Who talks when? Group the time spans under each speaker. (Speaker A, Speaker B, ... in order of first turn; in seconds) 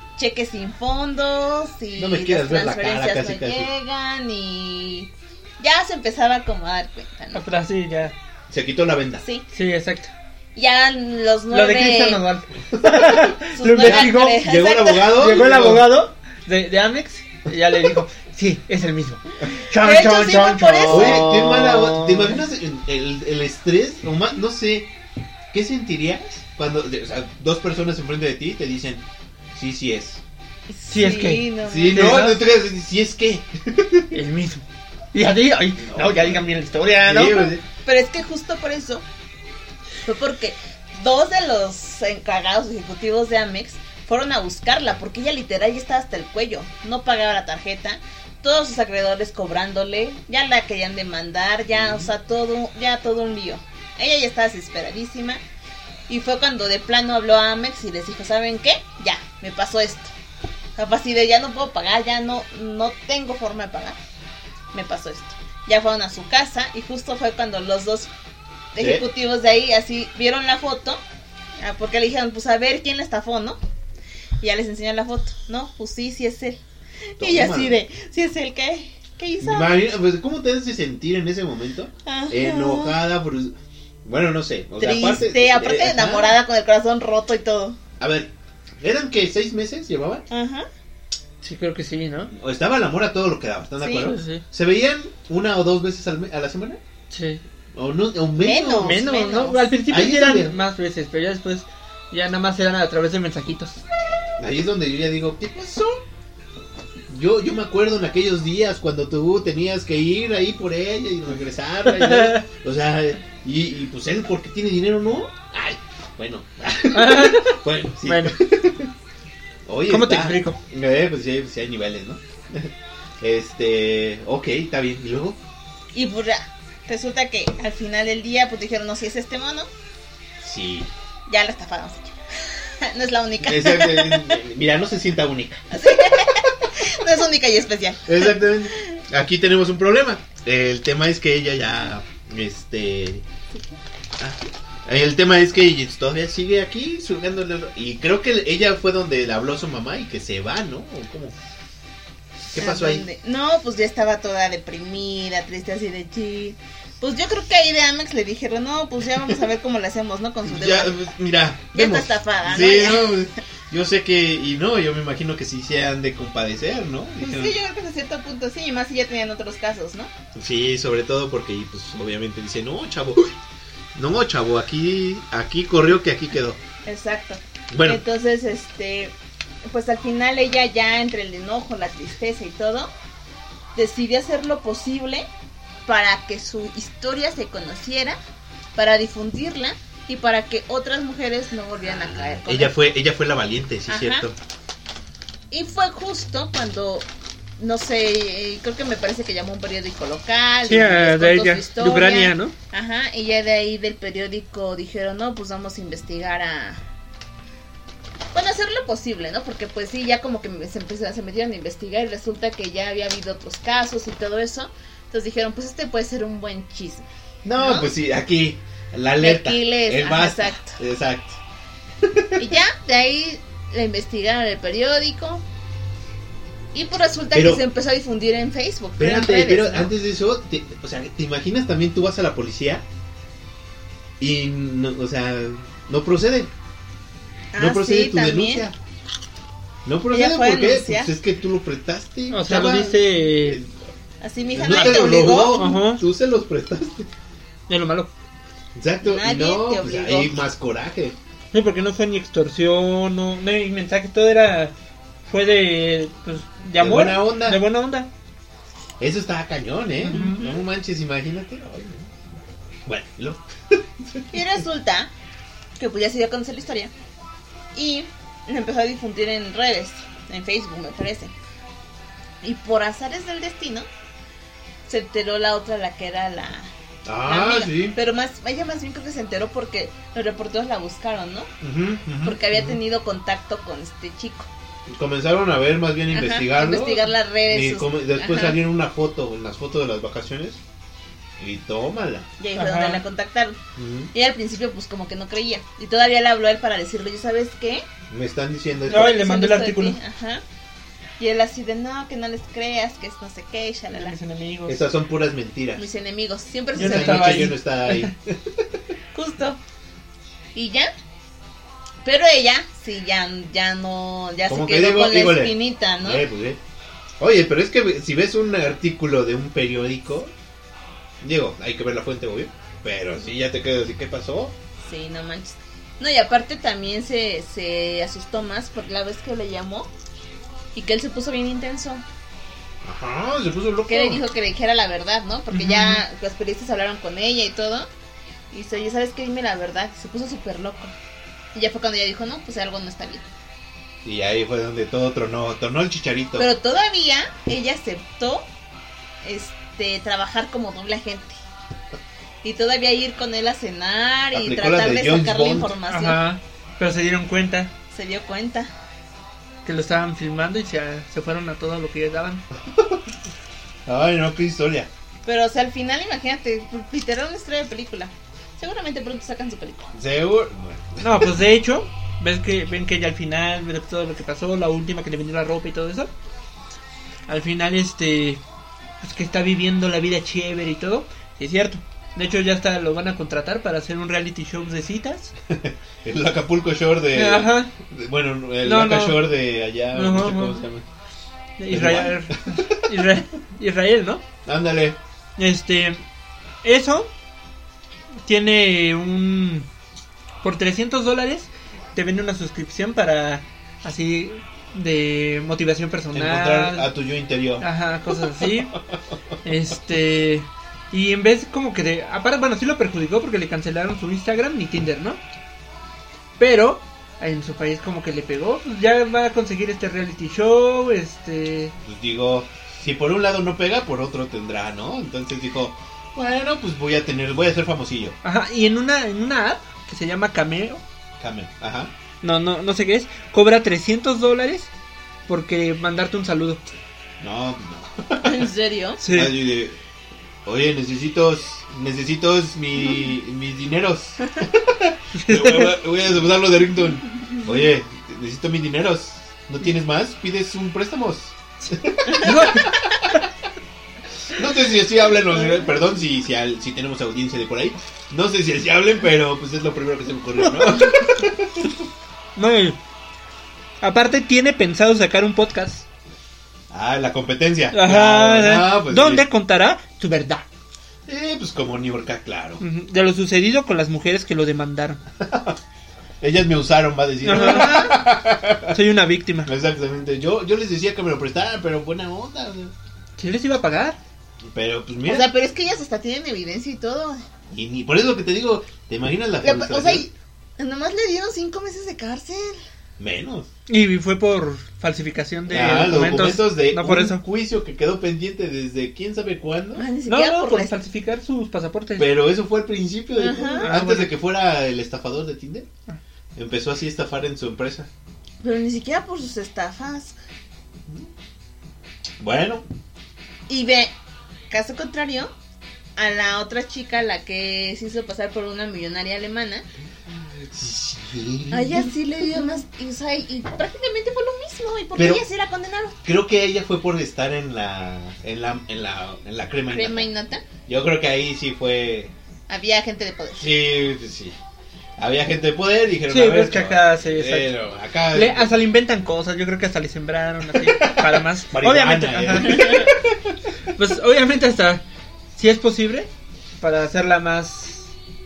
Speaker A: 0.2-7.4, 9.2-9.4, 10.5-12.2, 13.5-15.3, 19.8-21.2, 30.7-32.2, 37.8-39.0, 40.0-55.4, 56.1-60.1, 60.8-64.0, 64.7-68.1, 68.7-71.0, 71.6-73.6, 74.4-76.6, 77.2-79.8, 82.0-83.0, 84.8-87.8, 90.3-90.7, 93.8-94.1, 98.4-99.7, 125.9-129.7, 131.3-134.4, 135.7-138.8, 152.5-161.0, 161.7-163.3, 167.2-170.1, 176.8-179.1, 179.7-182.9, 183.7-185.3, 185.8-188.2, 188.8-192.7, 193.9-194.3, 195.5-197.1, 197.6-206.8, 208.3-217.1, 217.6-217.9, 219.2-220.8, 222.4-225.4, 226.7-229.9, 237.5-238.7, 240.1-241.1, 244.2-245.7, 249.0-250.4, 260.1-260.6, 264.3-265.1, 265.8-266.9, 267.7-271.3, 272.4-273.9, 274.9-276.7, 277.2-281.5, 282.2-284.5, 286.1-288.6, 292.4-293.6, 294.1-297.9, 298.9-300.4, 301.2-304.1, 305.8-307.5, 309.1-309.6, 310.5-310.9, 312.0-316.2, 324.8-329.9, 330.7-332.0, 333.9-337.9, 338.5-340.9, 341.5-343.2, 346.4-348.5, 349.2-351.4, 352.4-356.2, 357.9-358.7, 365.2-369.9, 438.2-439.0, 477.3-478.0, 485.0-487.2, 489.4-492.6, 499.7-500.7, 503.1-503.7, 508.4-510.2, 513.5-513.9, 514.5-515.3, 516.0-519.6, 521.5-526.0, 529.7-530.4, 532.5-533.5, 542.6-542.8
Speaker B: 2.0-3.7, 8.5-9.2, 12.7-15.9, 20.9-24.9, 25.5-30.2, 31.6-34.2, 35.8-36.4, 37.0-37.6, 51.7-52.1, 68.8-69.0, 77.2-77.8, 79.4-86.4, 88.0-90.2, 92.3-96.8, 97.7-99.0, 99.9-100.5, 104.4-106.0, 107.1-118.9, 119.7-125.4, 130.4-130.9, 133.4-135.7, 138.1-143.2, 144.2-151.3, 152.5-153.0, 160.4-167.6, 170.3-173.4, 173.9-176.6, 177.7-178.0, 191.8-194.4, 217.4-221.4, 222.0-222.6, 227.3-227.6, 229.0-232.8, 234.2-236.5, 237.6-238.8, 239.8-243.7, 244.5-247.1, 248.8-251.2, 256.8-257.6, 259.0-262.1, 262.9-264.4, 277.0-277.9, 281.6-282.8, 284.9-290.6, 291.4-292.3, 293.8-294.1, 298.1-299.2, 304.7-305.9, 306.8-308.7, 314.5-316.6, 317.2-320.3, 321.2-324.5, 332.8-334.2, 344.0-346.5, 354.3-355.7, 362.7-363.0, 363.9-364.9, 369.9-371.4, 385.5-390.8, 391.7-392.8, 394.4-395.0, 406.1-407.7, 408.4-408.6, 421.8-428.1, 431.2-431.9, 437.2-438.5, 439.1-439.8, 440.4-453.1, 454.3-461.7, 466.7-469.3, 471.1-472.6, 475.2-475.6, 476.2-478.8, 479.4-482.7, 484.4-485.3, 487.5-490.1, 493.0-493.5, 495.5-499.8, 502.0-505.7, 506.4-507.9, 512.2-512.6, 520.1-521.9, 525.0-525.2, 526.0-530.1, 530.7-532.1, 533.4-534.4, 535.0-538.6, 540.5-543.4
Speaker C: 7.3-8.1, 9.5-10.1, 11.5-14.4, 15.1-22.4, 30.9-32.4, 34.1-37.5, 91.4-92.3, 94.0-94.4, 97.1-97.4, 98.8-103.8, 111.9-112.4, 116.9-118.3, 119.9-120.6, 200.6-202.5, 242.3-243.6, 244.6-246.0, 247.7-248.1, 251.5-254.7, 255.3-258.1, 260.0-260.4, 292.6-293.0, 298.9-300.0, 303.9-304.8, 306.8-308.1, 335.5-336.0, 355.9-357.7, 359.6-362.4, 371.0-376.1, 377.3-378.4, 379.0-385.3, 387.1-387.7, 388.6-389.3, 389.9-390.6, 391.6-394.2, 395.4-396.0, 396.6-397.1, 398.2-399.7, 400.4-406.9, 407.6-408.8, 409.4-415.2, 416.4-421.7, 428.2-430.8, 432.2-434.7, 435.3-436.6, 439.0-439.4, 445.1-445.8, 452.1-452.8, 460.4-461.3, 462.4-462.8, 463.8-465.8, 467.7-470.4, 472.6-475.0, 477.2-478.1, 478.7-479.5, 483.2-484.0, 493.7-497.2, 500.1-502.1, 503.6-504.1, 536.1-537.5, 538.1-542.9, 543.7-544.8, 545.3-546.1, 546.6-547.9